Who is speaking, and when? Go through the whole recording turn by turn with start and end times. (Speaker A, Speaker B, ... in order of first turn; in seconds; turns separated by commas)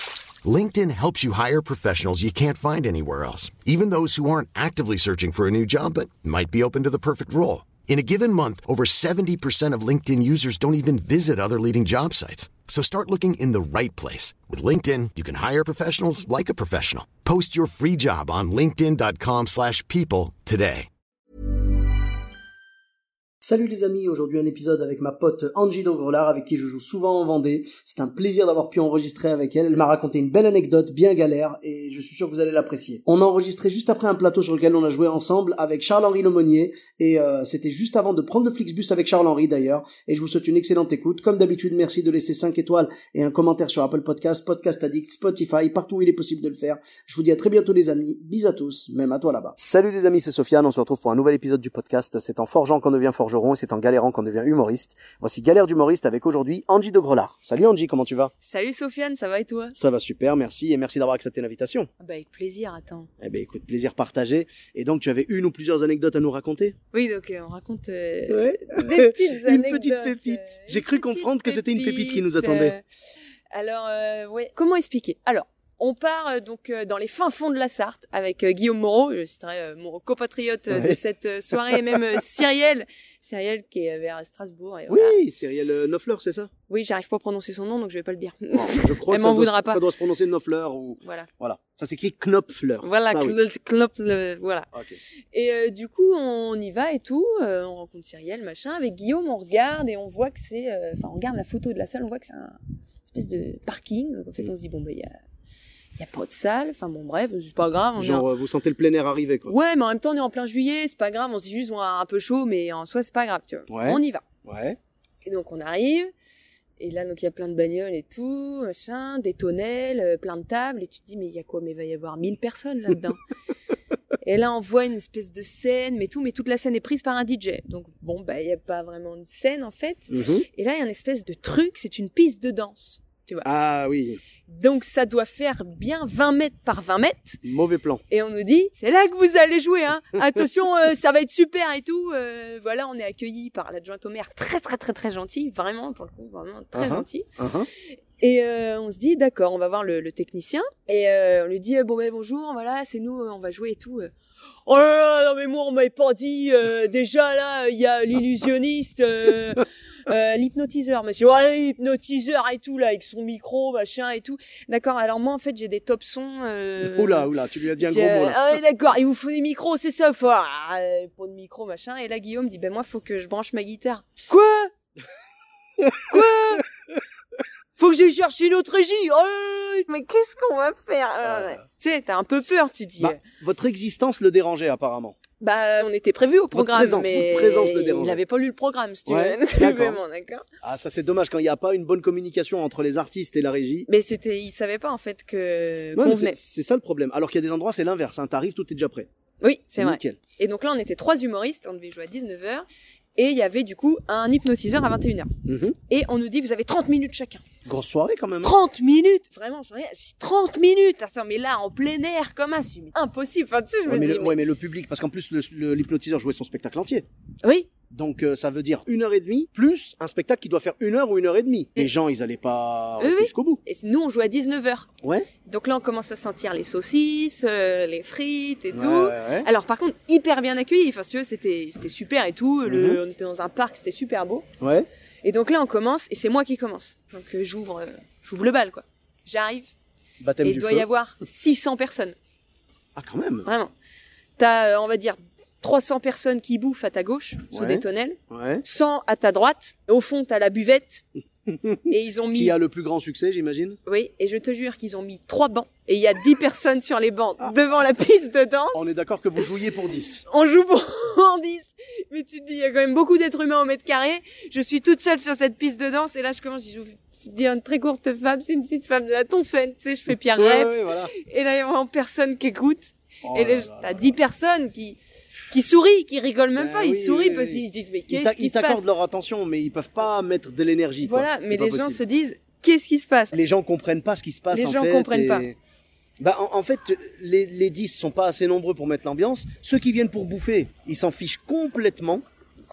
Speaker A: 0.4-20.9, Speaker B: 23.4-58.3, Speaker C: 58.4-59.8, Speaker B: 59.8-61.9, Speaker C: 62.0-63.1, Speaker B: 63.2-66.8, Speaker C: 66.9-72.8, Speaker B: 68.3-72.8, Speaker C: 73.5-85.2, Speaker B: 80.7-81.0, Speaker B: 81.8-82.0, Speaker B: 84.9-86.5, Speaker C: 86.7-89.8, Speaker B: 88.5-93.4, Speaker C: 91.0-91.3, Speaker C: 92.8-94.7, Speaker B: 94.7-95.0, Speaker C: 95.3-105.1, Speaker C: 106.0-108.3, Speaker B: 108.0-109.5, Speaker C: 109.5-114.2, Speaker B: 113.7-114.8, Speaker C: 115.2-116.1, Speaker C: 116.8-123.2, Speaker C: 124.2-133.5, Speaker B: 130.1-130.4, Speaker B: 133.4-134.2, Speaker C: 134.5-137.4, Speaker B: 137.4-138.0, Speaker C: 138.1-147.3, Speaker B: 146.7-147.7, Speaker C: 148.2-154.1, Speaker C: 154.6-174.7, Speaker B: 166.8-168.6, Speaker B: 175.8-176.2, Speaker C: 176.1-176.6, Speaker C: 177.8-183.2, Speaker B: 181.2-181.6, Speaker B: 183.0-185.2, Speaker C: 185.4-190.4, Speaker B: 186.5-188.2, Speaker B: 189.1-190.0, Speaker B: 190.6-193.9, Speaker C: 193.9-196.4, Speaker B: 195.9-199.1, Speaker C: 199.4-205.3, Speaker B: 199.8-200.2, Speaker B: 205.4-205.8, Speaker C: 205.9-207.4, Speaker B: 207.6-208.5, Speaker C: 208.4-214.4, Speaker B: 213.9-217.0, Speaker C: 217.4-217.7, Speaker B: 217.9-223.6, Speaker C: 223.0-224.9, Speaker B: 225.0-225.3, Speaker C: 225.4-234.4, Speaker B: 228.7-229.5, Speaker B: 232.7-233.0, Speaker B: 234.6-234.9, Speaker C: 235.2-239.7, Speaker B: 240.2-240.9, Speaker C: 240.4-242.1, Speaker B: 242.9-243.5, Speaker C: 243.4-243.7, Speaker C: 244.4-251.0, Speaker B: 247.5-248.6, Speaker B: 251.5-253.8, Speaker C: 251.9-252.6, Speaker C: 253.8-258.9, Speaker B: 258.7-260.2, Speaker C: 260.2-275.0, Speaker B: 270.3-271.1, Speaker B: 273.2-274.2, Speaker C: 275.5-278.9, Speaker B: 276.6-282.0, Speaker C: 281.0-283.3, Speaker B: 283.3-285.6, Speaker C: 284.5-285.5, Speaker B: 286.2-292.2